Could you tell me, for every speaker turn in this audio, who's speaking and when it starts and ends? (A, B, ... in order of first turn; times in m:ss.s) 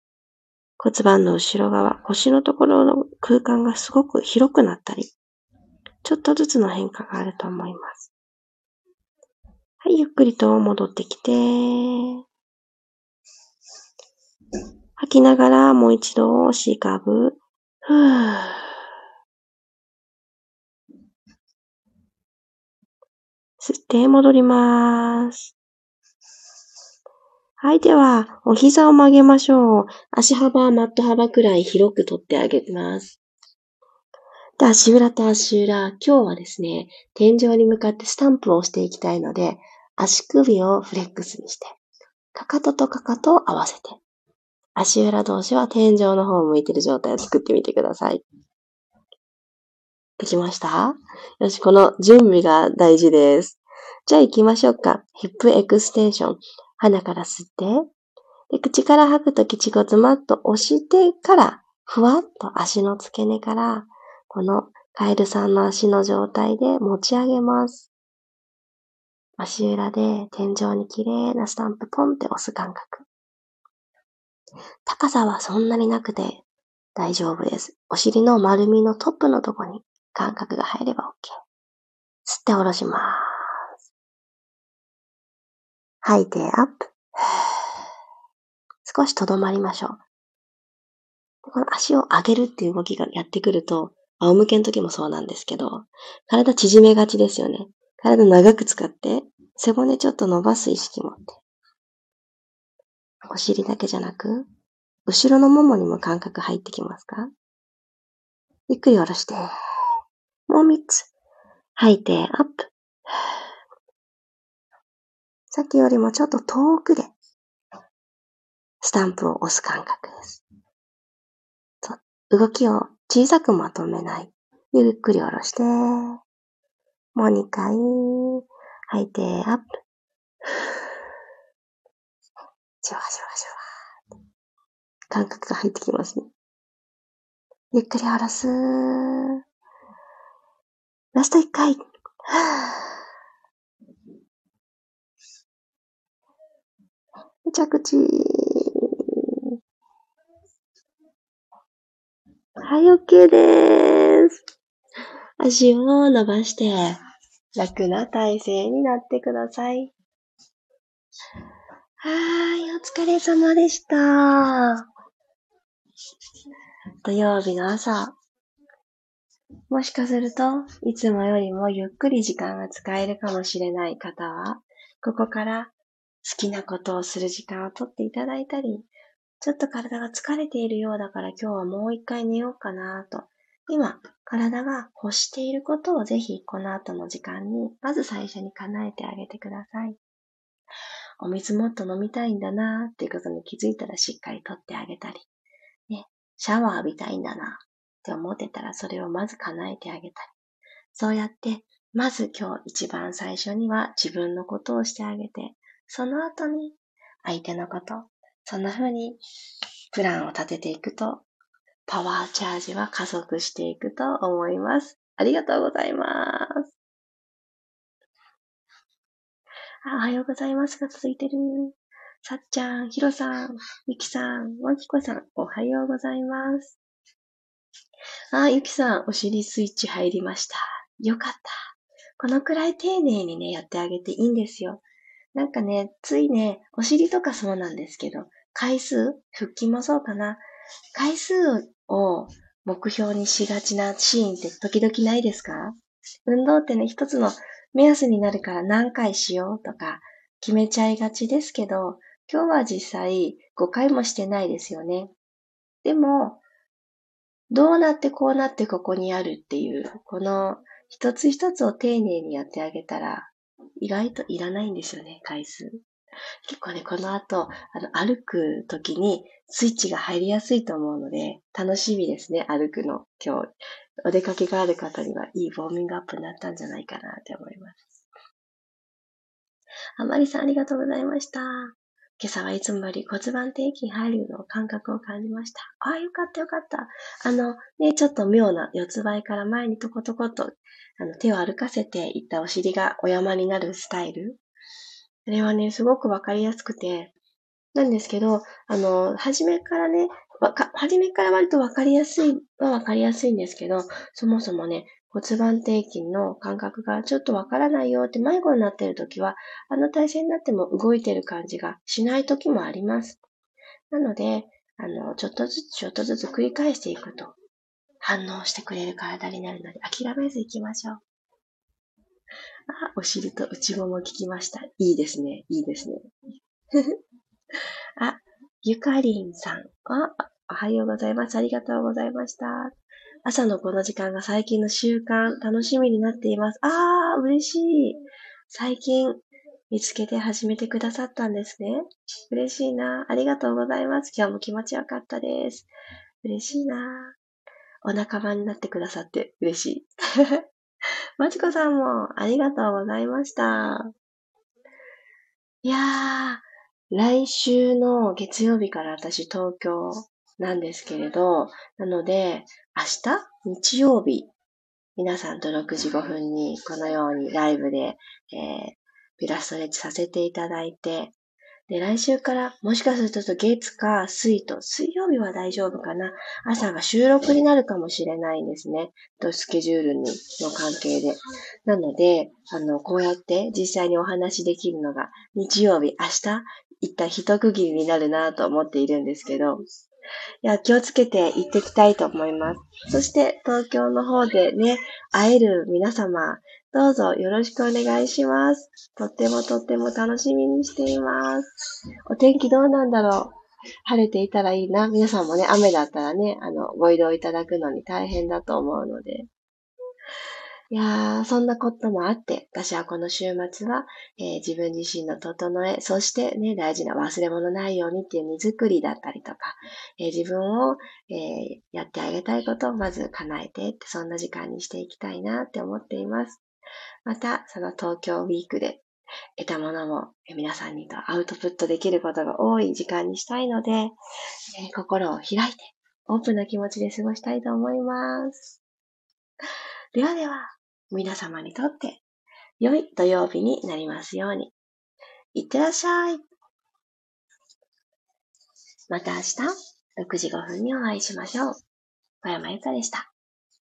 0:00.8-0:05.1 A
0:06.0-0:08.1 A
0:09.8-0:12.2 A
0:15.0-0:18.7 A
0:23.6-0:25.5 A
0:27.6-0:33.2 A
0:34.6-0:41.8 A
0:42.3-0:44.0 A
0:44.8-0:48.2 A
0:50.2-0:57.9 A
0:58.5-1:07.9 A
1:09.4-1:13.1 A
1:14.8-1:16.4 A
1:17.0-1:21.4 A
1:22.2-1:23.7 A
1:26.0-1:27.5 A
1:28.8-1:30.0 A
1:31.4-1:41.4 A
1:43.3-1:44.4 A
1:45.1-1:47.3 A
1:48.7-1:49.5 A
1:50.5-1:51.1 A
1:51.8-1:52.7 A
1:55.5-1:57.1 A
1:58.8-2:00.4 A
2:01.8-2:06.2 A
2:07.1-2:09.8 A
2:12.8-2:13.6 A
2:15.1-2:16.3 A
2:17.7-2:19.3 A
2:21.1-2:23.0 A
2:27.4-2:29.0 A
2:32.6-2:34.4 A
2:35.4-2:37.0 A
2:37.6-2:39.9 A
2:42.0-2:44.8 A
2:47.0-2:48.1 A
2:49.7-2:58.9 A
2:59.4-3:10.0 A
3:11.2-3:15.3 A
3:15.9-3:20.3 A
3:20.9-3:29.2 A
3:29.9-3:31.2 A
3:31.9-3:36.5 A
3:39.8-3:46.8 A
3:48.3-3:51.5 A
3:52.2-4:05.7 A
4:06.2-4:15.1 A
4:15.8-4:16.4 A
4:17.5-4:25.8 A
4:26.4-4:33.5 A
4:34.0-4:38.0 A
4:40.0-4:54.4 A
4:55.2-4:57.1 A
4:57.7-5:13.2 A
5:13.9-5:17.3 A
5:18.0-5:21.0 A
5:22.7-5:26.0 A
5:28.0-5:32.7 A
5:33.2-5:45.7 A
5:46.2-5:47.2 A
5:47.8-5:50.4 A
5:51.2-5:53.9 A
5:55.6-6:04.3 A
6:05.0-6:11.1 A
6:11.7-6:29.6 A
6:30.4-6:41.5 A
6:42.1-6:43.3 A
6:43.8-6:49.3 A
6:50.7-7:06.4 A
7:07.0-7:08.8 A
7:09.4-7:13.9 A
7:14.5-7:18.6 A
7:19.9-7:22.0 A
7:22.6-7:24.5 A
7:25.3-7:26.2 A
7:28.9-7:31.6 A
7:32.2-7:33.1 A